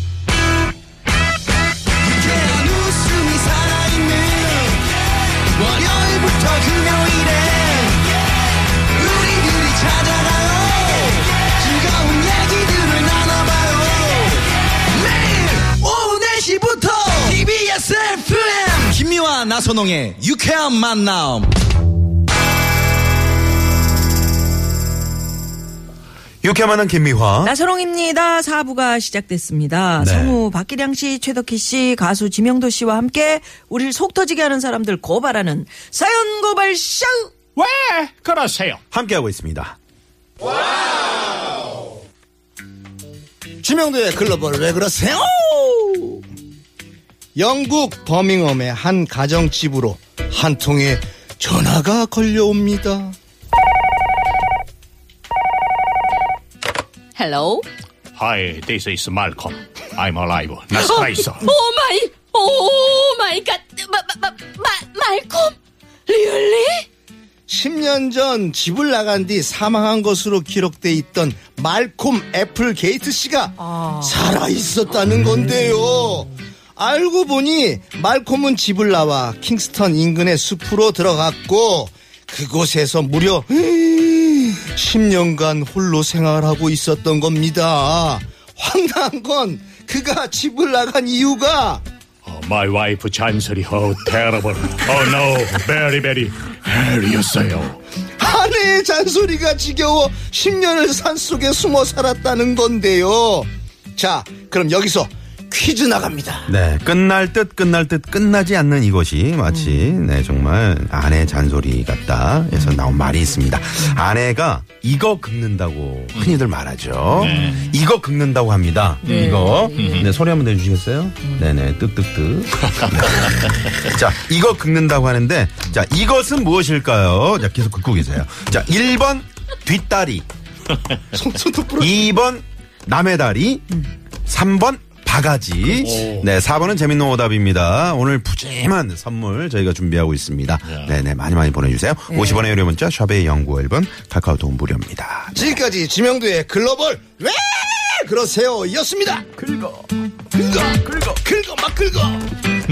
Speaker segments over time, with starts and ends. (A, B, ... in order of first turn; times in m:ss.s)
0:02.1-0:04.8 A
0:02.3-0:02.7 B
0:03.3-0:04.4 B
0:05.6-0:08.0 A
0:06.8-0:07.6 B
0:08.8-0:21.5 A
0:26.4-0:27.5 C
0:27.4-0:37.3 D
0:30.0-0:30.4 C
0:37.6-0:38.8 E
0:38.9-0:39.8 C
0:43.6-0:46.2 B
0:47.4-0:53.2 B
0:57.2-0:57.6 F
0:58.2-1:01.5 E
1:00.8-1:05.6 F
1:06.1-1:06.7 F
1:07.5-1:31.8 B
1:13.6-1:14.2 D
1:32.2-1:37.8 E
1:38.2-1:46.5 B
1:46.5-2:10.2 C
1:49.5-1:50.0 D
1:56.2-1:56.4 E
1:57.2-1:57.6 E
1:57.2-1:57.8 D
1:59.0-2:00.1 D
1:59.0-2:00.1 E
2:11.2-2:12.0 B
2:11.8-2:25.4 C
2:15.8-2:16.3 E
2:20.6-2:20.9 E
2:22.1-2:22.5 D
2:25.3-2:29.3 B
2:29.4-2:29.8 C
2:30.3-2:32.3 B
2:30.8-2:31.2 C